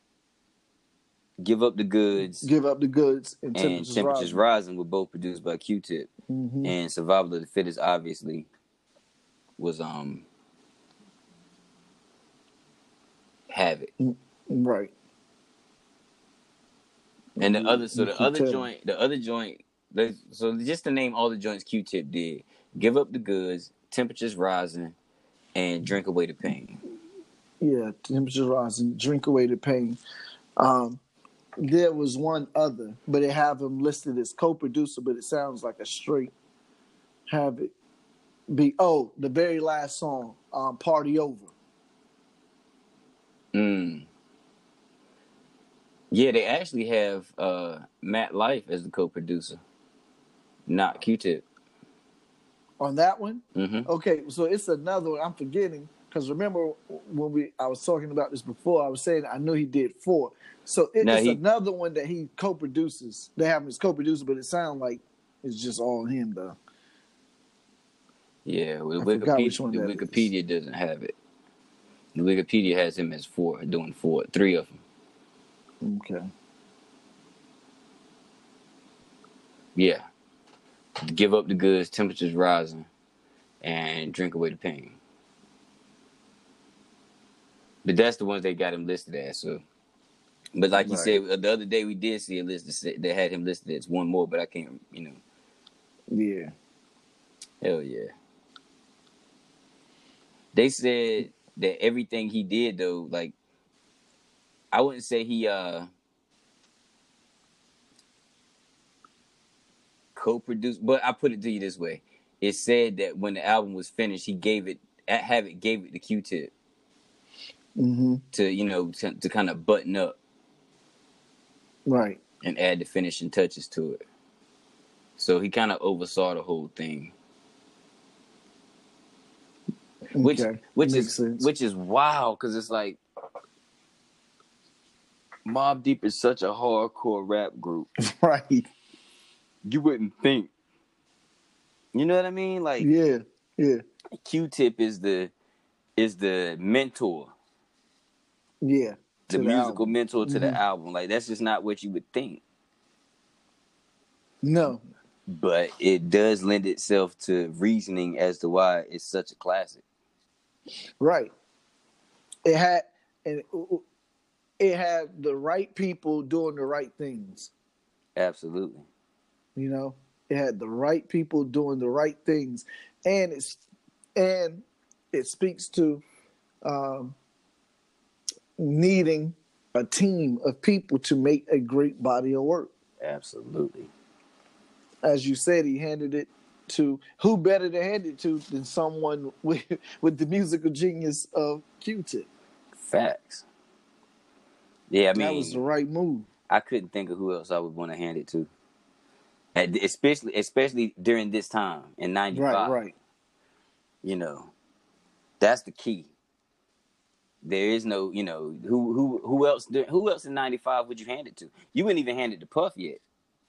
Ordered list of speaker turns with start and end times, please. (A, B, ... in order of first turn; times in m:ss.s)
0:01.4-0:02.5 A
0:02.3-0:04.4 B
0:03.6-0:06.1 A
0:06.3-0:06.7 B
0:06.6-0:08.5 A
0:09.6-0:10.2 A
0:13.5-0:13.9 A
0:14.0-0:14.9 B
0:17.4-0:18.6 B
0:17.4-0:25.0 A
0:25.6-0:26.8 A
0:27.6-0:30.0 B
0:30.6-0:31.0 B
0:31.6-0:36.3 B
0:37.3-0:37.7 B
0:38.5-0:41.5 B
0:43.5-0:44.1 A
0:46.1-0:49.6 A
0:50.7-0:51.4 A
0:52.8-1:06.6 B
0:53.6-0:53.9 A
1:01.0-1:01.4 A
1:08.4-1:11.1 A
1:09.0-1:10.2 B
1:12.1-1:14.8 A
1:15.8-1:16.3 B
1:19.7-1:20.1 A
1:21.1-1:22.9 A
1:23.6-1:25.0 A
1:27.8-1:29.6 A
1:30.6-1:35.2 A
1:30.8-1:31.2 B
1:36.1-1:36.5 B
1:37.6-1:38.1 A
1:40.5-1:43.3 A
1:44.7-1:45.9 A
1:50.1-1:56.5 A
1:57.8-1:58.2 B
1:58.3-2:00.2 A
2:01.9-2:02.2 B
2:02.4-2:04.0 A
2:05.2-2:07.1 A
2:10.1-2:11.4 B
2:10.2-2:13.0 A
2:15.4-2:17.9 A
2:18.0-2:18.6 B
2:19.6-2:20.5 A
2:21.9-2:22.9 A
2:22.8-2:23.8 B
2:24.2-2:25.3 A
2:26.0-2:27.3 A
2:28.6-2:30.6 B
2:29.3-2:32.4 A
2:34.4-2:34.8 B
2:35.3-2:39.8 A
2:41.0-2:41.3 B
2:42.4-2:43.8 B
2:44.6-2:47.5 B
2:48.2-2:48.9 A
2:49.6-2:53.6 B
2:54.2-2:56.0 B
2:56.6-2:57.2 B
2:58.6-3:02.7 B
3:03.0-3:03.9 A
3:05.0-3:12.3 B
3:12.8-3:13.4 A
3:14.9-3:15.6 A
3:15.1-3:16.3 B
3:16.5-3:18.5 A
3:19.6-3:22.8 A
3:22.3-3:22.9 B
3:24.0-3:24.5 A
3:25.4-3:26.1 A
3:27.4-3:33.0 A